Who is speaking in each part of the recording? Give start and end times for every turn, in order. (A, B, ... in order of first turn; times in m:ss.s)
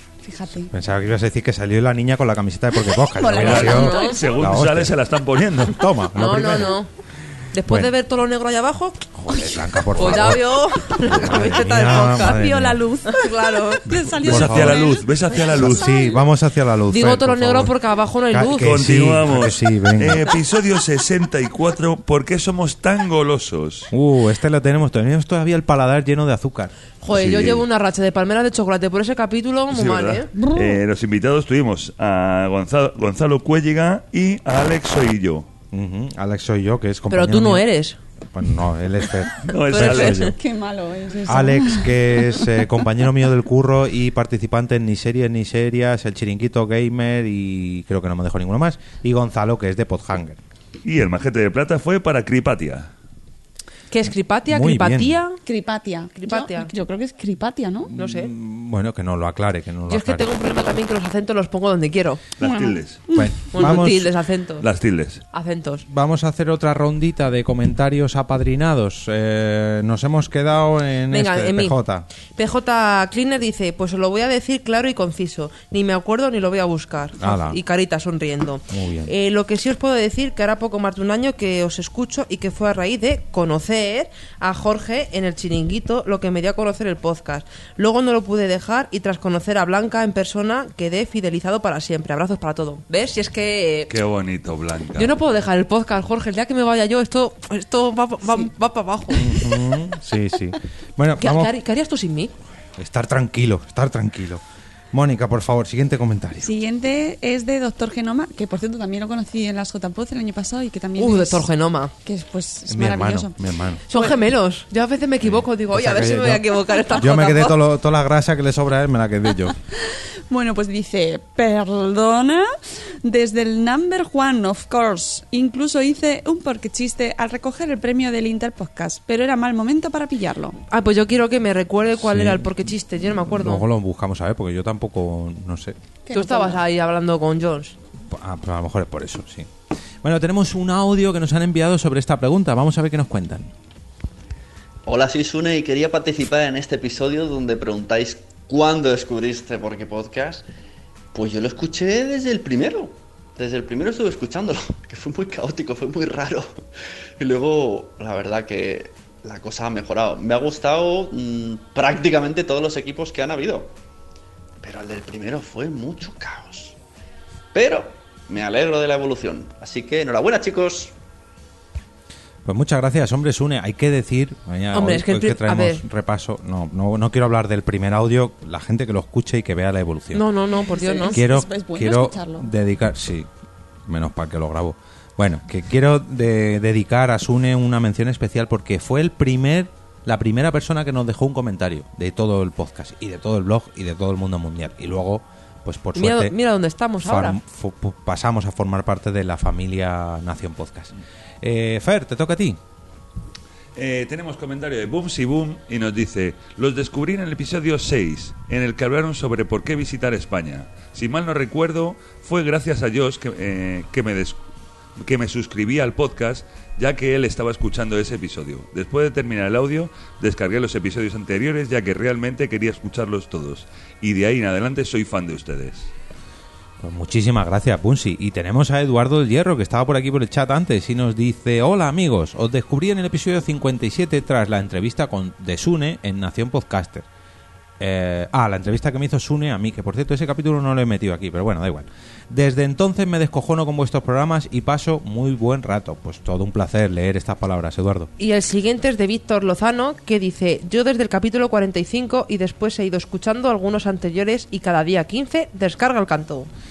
0:00.2-0:00.7 A
0:00.7-0:04.9 B
0:02.9-0:04.2 A
0:03.4-0:05.8 C
0:03.6-0:04.2 D
0:05.6-0:06.8 B
0:06.2-0:06.9 D
0:07.5-0:09.0 D
0:07.6-0:07.9 B
0:09.1-0:12.8 B
0:09.9-0:12.4 D
0:11.7-0:16.2 A
0:13.1-0:13.8 D
0:13.9-0:15.0 B
0:14.2-0:15.9 C
0:15.5-0:17.7 B
0:16.9-0:18.7 D
0:18.3-0:20.3 B
0:18.6-0:23.9 C
0:23.9-0:26.7 B
0:27.0-0:30.3 D
0:27.1-0:27.6 C
0:29.7-0:35.5 C
0:30.4-0:30.8 A
0:35.7-0:37.7 B
0:37.1-0:38.0 D
0:38.3-0:40.4 B
0:39.4-0:40.3 C
0:39.7-0:40.3 D
0:40.2-0:42.5 A
0:41.2-0:50.4 B
0:50.8-0:52.9 C
0:53.9-0:55.4 D
0:54.5-0:55.2 B
0:55.4-0:57.9 A
0:56.2-0:56.7 D
0:57.9-1:00.3 B
0:57.9-0:58.3 D
0:59.9-1:02.2 D
1:02.4-1:03.0 C
1:02.4-1:03.3 A
1:03.1-1:04.1 B
1:03.5-1:04.6 D
1:04.6-1:05.2 C
1:05.3-1:05.8 D
1:05.9-1:12.1 B
1:11.1-1:11.8 D
1:12.4-1:33.9 D
1:17.2-1:17.6 B
1:18.7-1:19.1 B
1:33.9-1:35.1 C
1:35.0-1:39.3 D
1:39.1-1:41.5 B
1:41.2-1:42.3 D
1:42.8-1:44.4 B
1:44.9-1:46.5 B
1:46.4-1:51.4 A
1:51.0-1:51.9 D
1:52.0-1:53.3 A
1:52.7-1:53.8 B
1:53.9-1:57.6 D
1:53.9-1:54.2 A
1:55.2-1:59.6 B
1:59.7-2:02.5 A
2:03.0-2:10.6 A
2:10.7-2:13.6 D
2:12.0-2:12.7 B
2:13.2-2:15.8 B
2:16.0-2:16.6 A
2:16.1-2:17.7 D
2:18.1-2:19.5 B
2:20.0-2:23.5 B
2:24.8-2:30.4 E
2:31.1-2:36.6 E
2:37.2-2:43.7 E
2:44.6-2:46.8 E
2:47.5-2:50.9 E
2:52.4-3:00.2 B
2:54.7-2:55.8 D
3:00.1-3:01.2 D
3:00.6-3:02.5 A
3:01.1-3:03.3 B
3:03.8-3:16.4 B
3:15.9-3:17.4 D
3:17.0-3:22.6 B
3:23.8-3:34.4 C
3:35.0-3:45.9 C
3:46.8-3:57.0 B
3:57.8-4:08.1 B
4:08.2-4:16.5 D